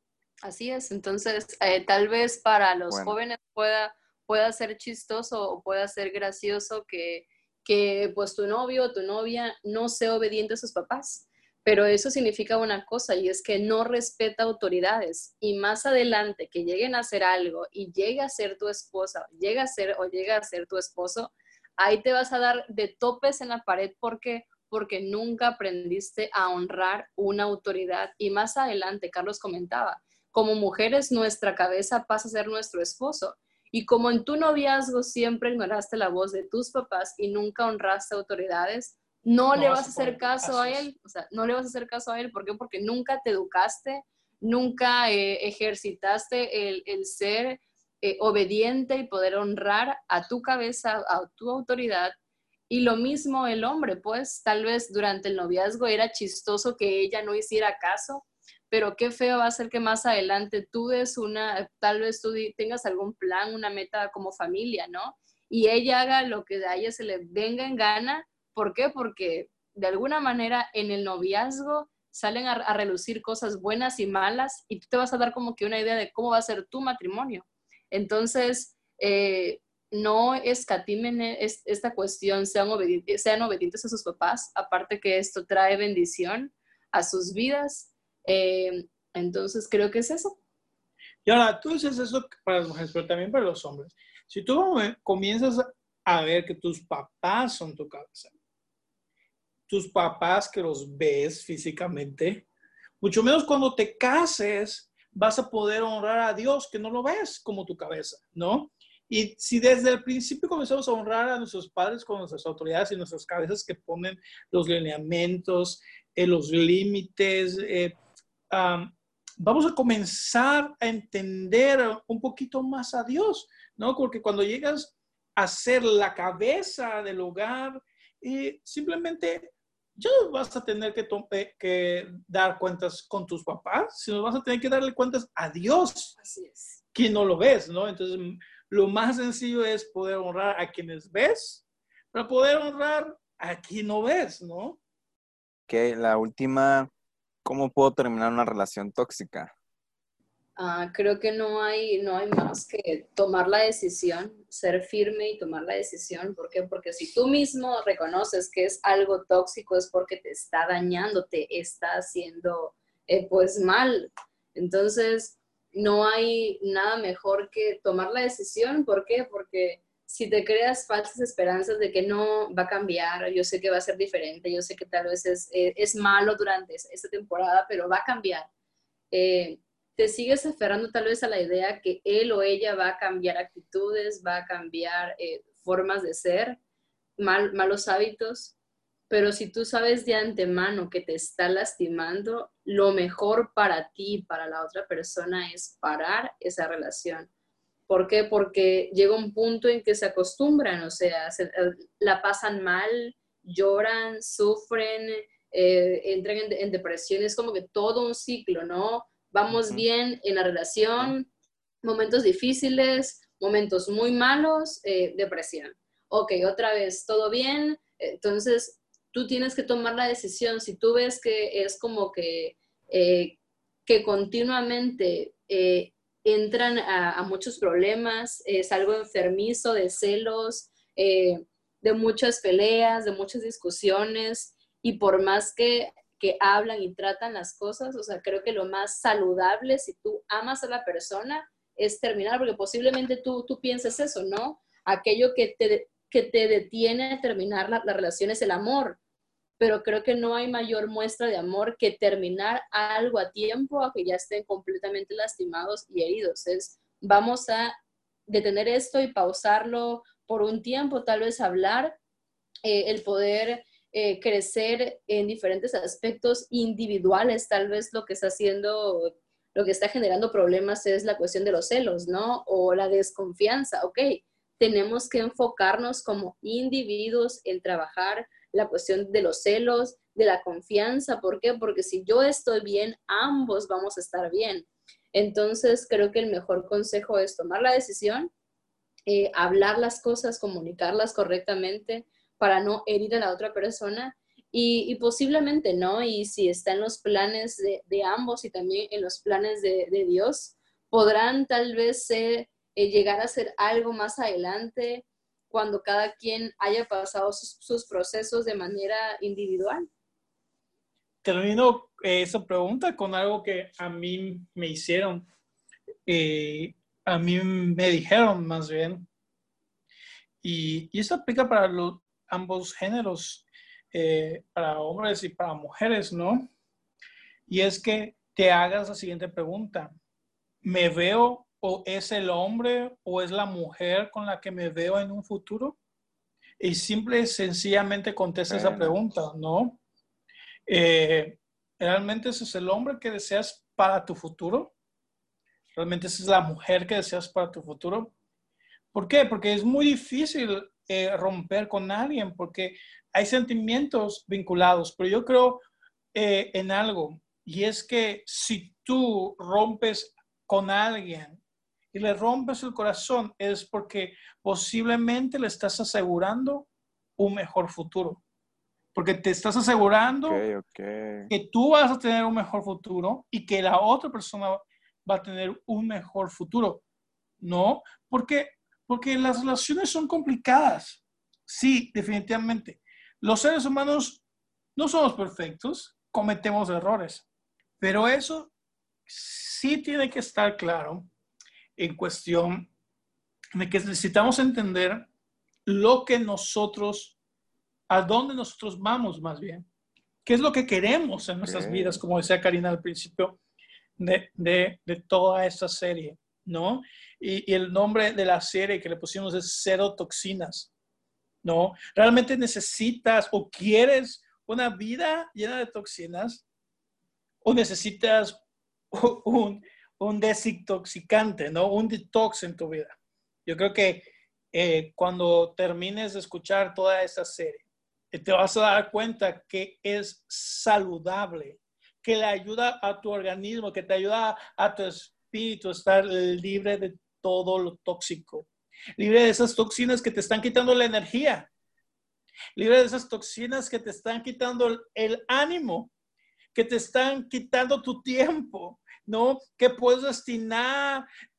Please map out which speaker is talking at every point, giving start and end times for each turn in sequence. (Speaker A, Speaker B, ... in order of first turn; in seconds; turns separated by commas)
Speaker A: 0.4-52.2, Speaker B: 2.9-3.2, Speaker C: 39.5-40.9, Speaker A: 52.7-90.4, Speaker C: 91.3-98.3, Speaker C: 99.7-102.5, Speaker C: 103.0-118.0, Speaker C: 118.5-136.2, Speaker A: 136.2-136.8, Speaker C: 136.9-144.8, Speaker B: 145.7-146.9, Speaker B: 147.4-149.5, Speaker A: 150.6-178.5, Speaker A: 179.1-186.6, Speaker A: 187.2-188.6, Speaker A: 189.1-197.3, Speaker A: 197.9-211.3, Speaker B: 209.5-209.9, Speaker A: 211.8-249.0, Speaker A: 249.6-257.8, Speaker A: 258.3-262.0, Speaker A: 262.6-288.3, Speaker A: 289.1-309.9, Speaker C: 311.2-315.3, Speaker C: 316.1-319.1, Speaker C: 320.4-326.5, Speaker C: 327.5-329.9, Speaker C: 330.6-335.8, Speaker C: 336.6-339.8, Speaker B: 338.5-339.0, Speaker C: 340.7-344.7, Speaker C: 345.8-348.1, Speaker C: 348.9-355.6, Speaker C: 356.1-361.4, Speaker C: 361.9-368.2, Speaker C: 368.9-370.4, Speaker B: 370.2-371.3, Speaker C: 371.3-376.8, Speaker C: 377.4-384.2, Speaker C: 384.8-387.3, Speaker C: 387.8-388.5, Speaker C: 389.1-391.1, Speaker C: 391.8-392.7, Speaker C: 393.6-395.1, Speaker C: 395.7-397.1, Speaker C: 397.9-399.7, Speaker C: 400.3-403.4, Speaker B: 401.4-402.0, Speaker C: 404.0-410.7, Speaker C: 411.4-416.4, Speaker C: 417.4-418.4, Speaker C: 418.9-423.0, Speaker C: 423.5-441.5, Speaker C: 442.6-445.9, Speaker C: 446.5-451.1